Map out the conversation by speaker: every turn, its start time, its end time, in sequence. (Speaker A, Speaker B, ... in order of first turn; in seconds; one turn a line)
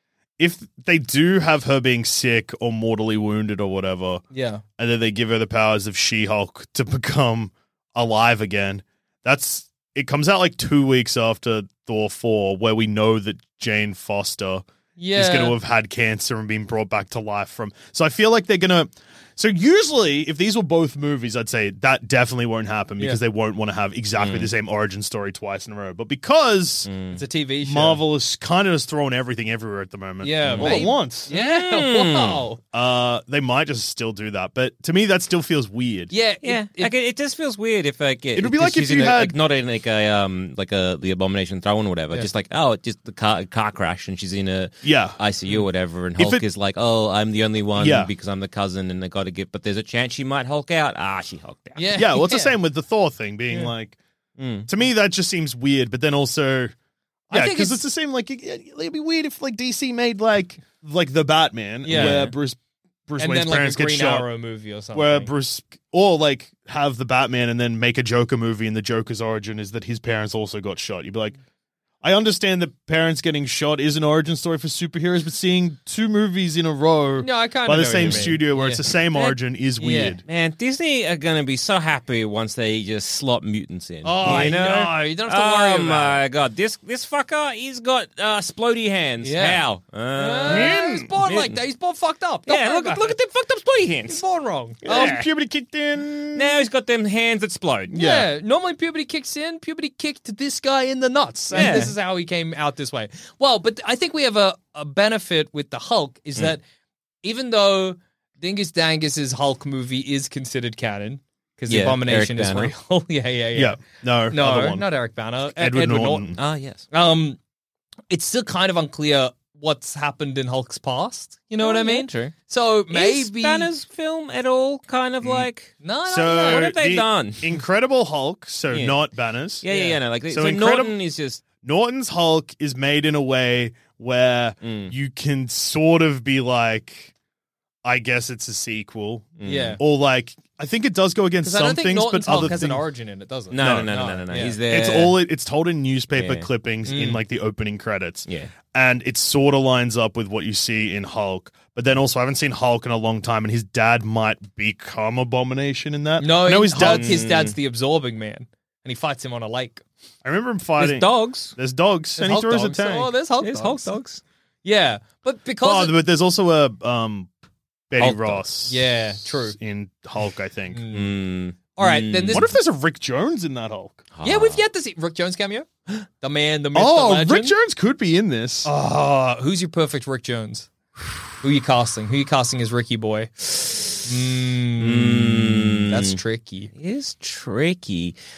Speaker A: 0.4-4.2
Speaker B: 4.3-4.6
Speaker A: 4.8-26.9
Speaker B: 15.0-15.6
Speaker C: 24.2-24.5
Speaker C: 26.9-27.2
Speaker B: 27.1-28.0
Speaker A: 27.6-31.3
Speaker B: 30.2-32.6
Speaker C: 30.4-32.5
Speaker A: 32.7-36.1
Speaker B: 36.1-36.9
Speaker C: 36.4-52.0
Speaker A: 38.3-39.4
Speaker A: 44.8-45.2
Speaker A: 46.2-46.4
Speaker A: 47.8-48.1
Speaker B: 51.8-52.5
Speaker A: 52.0-54.0
Speaker C: 54.4-54.7
Speaker A: 54.7-56.7
Speaker B: 57.3-57.8
Speaker A: 57.3-64.3
Speaker B: 61.8-62.2
Speaker C: 61.9-62.3
Speaker B: 63.2-65.3
Speaker A: 64.9-71.4
Speaker A: 72.0-80.2
Speaker B: 77.2-80.2
Speaker C: 80.2-91.6
Speaker B: 84.0-86.2
Speaker A: 84.2-84.5
Speaker B: 89.2-89.6
Speaker B: 90.1-93.1
Speaker A: 90.5-91.0
Speaker C: 92.5-94.2
Speaker B: 94.1-94.8
Speaker C: 94.8-95.3
Speaker A: 94.8-96.7
Speaker C: 96.3-98.0
Speaker A: 97.9-98.3
Speaker B: 97.9-106.6
Speaker C: 101.5-101.9
Speaker B: 107.2-116.3
Speaker C: 111.7-112.7
Speaker A: 113.5-114.9
Speaker A: 115.5-116.4
Speaker C: 116.4-116.8
Speaker B: 116.9-117.4
Speaker B: 118.1-123.7
Speaker C: 121.6-122.3
Speaker C: 122.9-127.5
Speaker A: 125.2-125.5
Speaker B: 125.8-126.7
Speaker A: 126.0-129.7
Speaker C: 128.7-129.0
Speaker C: 129.6-131.4
Speaker B: 129.7-130.0
Speaker A: 130.3-131.0
Speaker A: 131.6-137.1
Speaker C: 134.6-134.9
Speaker A: 137.8-142.8
Speaker C: 139.4-139.8
Speaker B: 139.4-139.8
Speaker B: 141.4-144.6
Speaker C: 143.5-145.2
Speaker A: 143.6-157.2
Speaker C: 146.1-146.5
Speaker B: 146.8-147.2
Speaker C: 148.3-148.5
Speaker B: 156.2-159.8
Speaker C: 156.7-157.6
Speaker A: 160.2-163.1
Speaker C: 160.8-161.5
Speaker B: 162.2-164.0
Speaker C: 163.4-164.2
Speaker B: 164.6-165.9
Speaker A: 165.6-167.3
Speaker A: 167.9-170.8
Speaker C: 168.0-168.4
Speaker B: 168.7-169.6
Speaker B: 170.7-171.1
Speaker C: 170.9-172.5
Speaker B: 171.7-172.5
Speaker A: 172.3-174.1
Speaker C: 174.1-174.6
Speaker B: 174.2-175.7
Speaker B: 176.2-177.5
Speaker A: 176.7-178.7
Speaker B: 178.6-180.7
Speaker B: 181.4-186.7
Speaker C: 184.8-186.2
Speaker C: 186.8-188.2